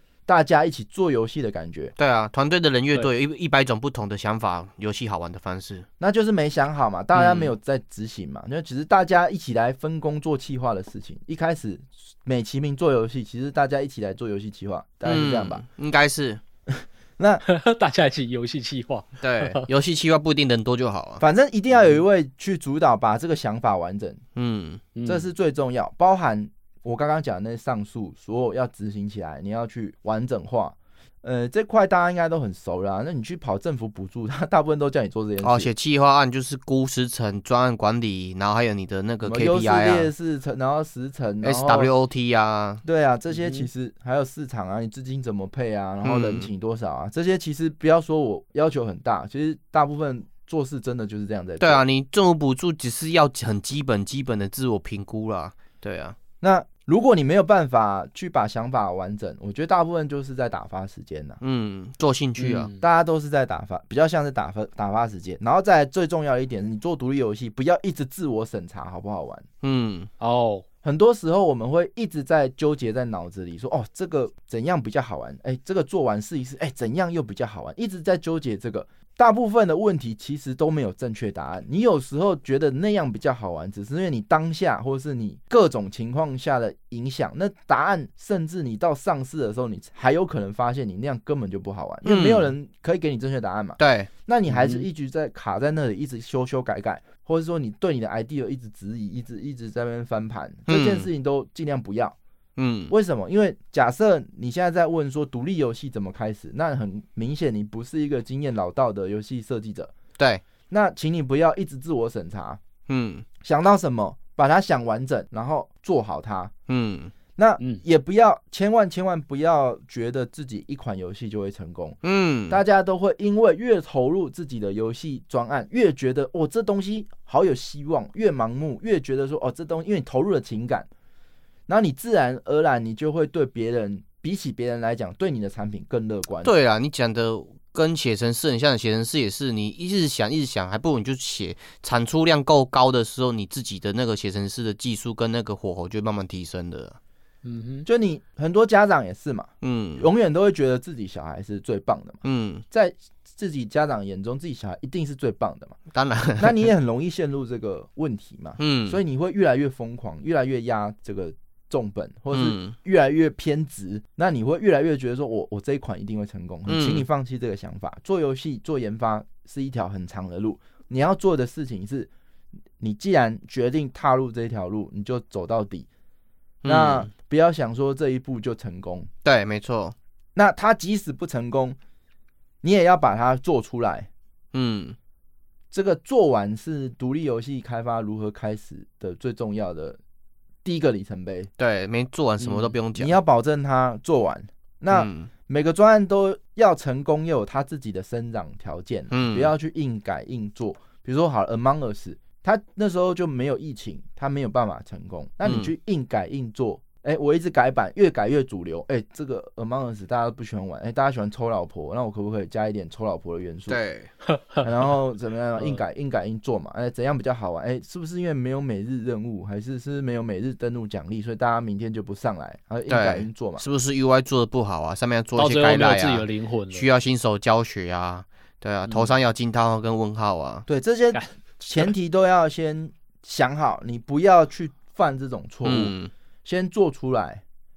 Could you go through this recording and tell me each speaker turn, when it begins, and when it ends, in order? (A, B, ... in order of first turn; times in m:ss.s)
0:00.3-0:01.9 A
0:02.0-0:05.8 B
0:06.0-0:15.6 A
0:07.1-0:07.5 B
0:15.0-0:16.4 B
0:16.7-0:17.4 A
0:17.4-0:19.7 C
0:19.2-0:21.2 B
0:21.2-0:24.2 A
0:21.7-0:22.0 C
0:24.4-0:24.8 B
0:24.9-0:25.3 C
0:25.0-0:35.7 A
0:35.4-0:40.1 B
0:39.2-0:41.9 A
0:41.4-0:42.8 B
0:42.8-0:51.8 A
0:43.3-0:43.7 C
0:46.0-0:46.5 B
0:51.6-0:56.2 B
0:56.4-1:01.4 A
1:01.4-1:02.7 B
1:02.4-1:02.8 C
1:02.8-1:09.4 A
1:09.6-1:10.1 B
1:10.2-1:10.6 C
1:10.8-1:42.2 A
1:32.0-1:32.5 B
1:33.8-1:34.1 B
1:34.5-1:34.8 C
1:40.7-1:41.1 B
1:42.6-1:42.9 B
1:42.9-1:49.9 A
1:50.2-1:50.4 B
1:50.7-1:52.6 A
1:52.9-1:53.2 B
1:53.4-1:56.5 A
1:56.7-1:57.1 B
1:57.4-2:02.0 A
2:02.0-2:02.6 B
2:02.5-2:10.9 A
2:11.7-2:16.5 A
2:16.4-2:27.0 B
2:27.4-2:27.9 C
2:27.8-2:35.8 A
2:29.6-2:30.0 B
2:32.2-2:32.6 B
2:35.9-2:36.7 B
2:36.4-2:52.1 A
2:38.6-2:39.0 B
2:42.3-2:42.7 B
2:46.7-2:47.0 B
2:52.8-2:55.9 A
2:56.6-2:57.1 B
2:56.6-2:59.1 A
2:59.2-2:59.9 B
3:00.4-3:01.8 A
3:02.6-3:04.1 A
3:04.5-3:05.0 B
3:05.7-3:10.0 A
3:10.6-3:11.5 A
3:11.6-3:13.2 B
3:12.4-3:12.7 C
3:12.9-3:33.8 A
3:14.9-3:15.3 B
3:19.1-3:19.5 B
3:25.4-3:25.7 B
3:33.7-3:34.1 B
3:34.3-3:34.6 C
3:34.6-3:43.6 A
3:42.9-3:50.7 B
3:45.4-3:46.9 C
3:48.9-3:49.1 C
3:50.7-3:55.9 A
3:55.6-3:56.1 B
3:56.4-3:57.4 A